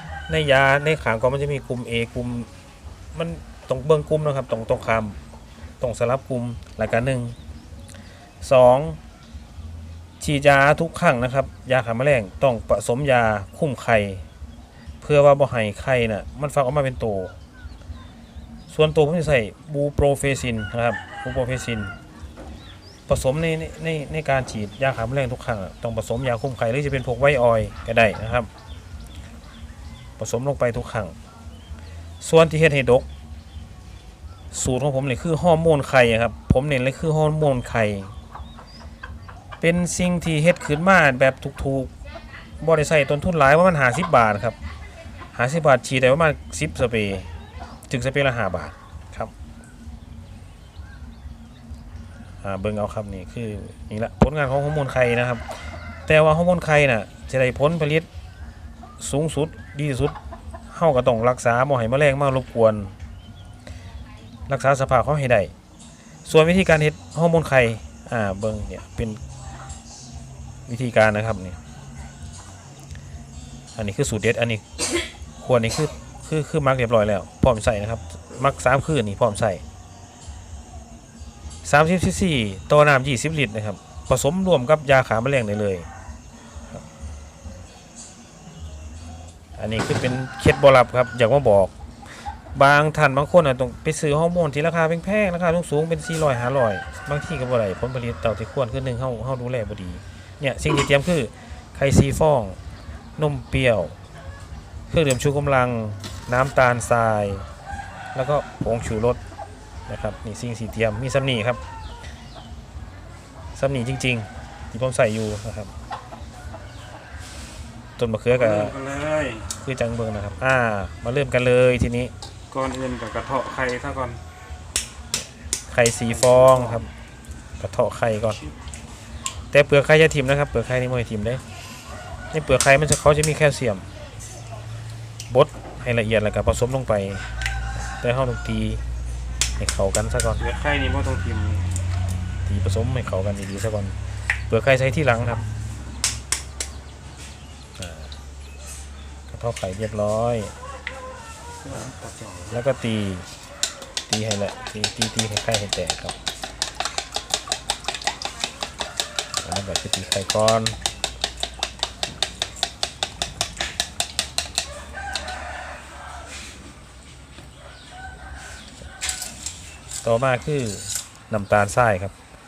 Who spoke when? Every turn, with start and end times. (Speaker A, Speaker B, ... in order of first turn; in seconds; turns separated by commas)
Speaker A: 0.3-2.5, Speaker A: 3.1-5.2, Speaker A: 5.8-7.4, Speaker A: 8.4-9.0, Speaker A: 10.2-14.2, Speaker A: 15.0-17.3, Speaker A: 18.7-21.9, Speaker A: 23.1-28.5, Speaker A: 30.2-31.1, Speaker A: 32.2-33.1, Speaker A: 34.5-38.1, Speaker A: 39.6-41.9, Speaker A: 42.6-44.6, Speaker A: 45.3-47.3, Speaker A: 47.9-49.3, Speaker A: 52.4-58.1, Speaker A: 59.0-60.2, Speaker A: 60.7-63.0, Speaker A: 64.5-65.5, Speaker A: 66.3-69.2, Speaker A: 70.7-71.6, Speaker A: 73.8-74.6, Speaker A: 75.4-79.6, Speaker A: 81.6-85.9, Speaker A: 89.6-91.7, Speaker A: 92.5-102.6, Speaker A: 103.2-104.0, Speaker A: 104.9-107.5, Speaker A: 108.1-109.2, Speaker A: 109.9-111.6, Speaker A: 113.6-115.7, Speaker A: 118.0-118.8, Speaker B: 118.3-119.5, Speaker A: 119.6-122.1, Speaker B: 122.5-124.2, Speaker A: 125.7-126.9, Speaker B: 126.1-126.8, Speaker A: 127.6-128.4, Speaker A: 129.5-131.4, Speaker A: 132.3-133.9, Speaker A: 135.3-137.3, Speaker A: 137.8-138.8, Speaker A: 139.6-140.5, Speaker B: 140.4-141.7, Speaker A: 142.5-144.0, Speaker A: 144.5-145.4, Speaker A: 147.8-148.1, Speaker A: 149.3-150.5, Speaker B: 151.6-152.6, Speaker A: 152.5-153.3, Speaker A: 154.1-156.2, Speaker A: 159.4-160.8, Speaker A: 170.0-172.1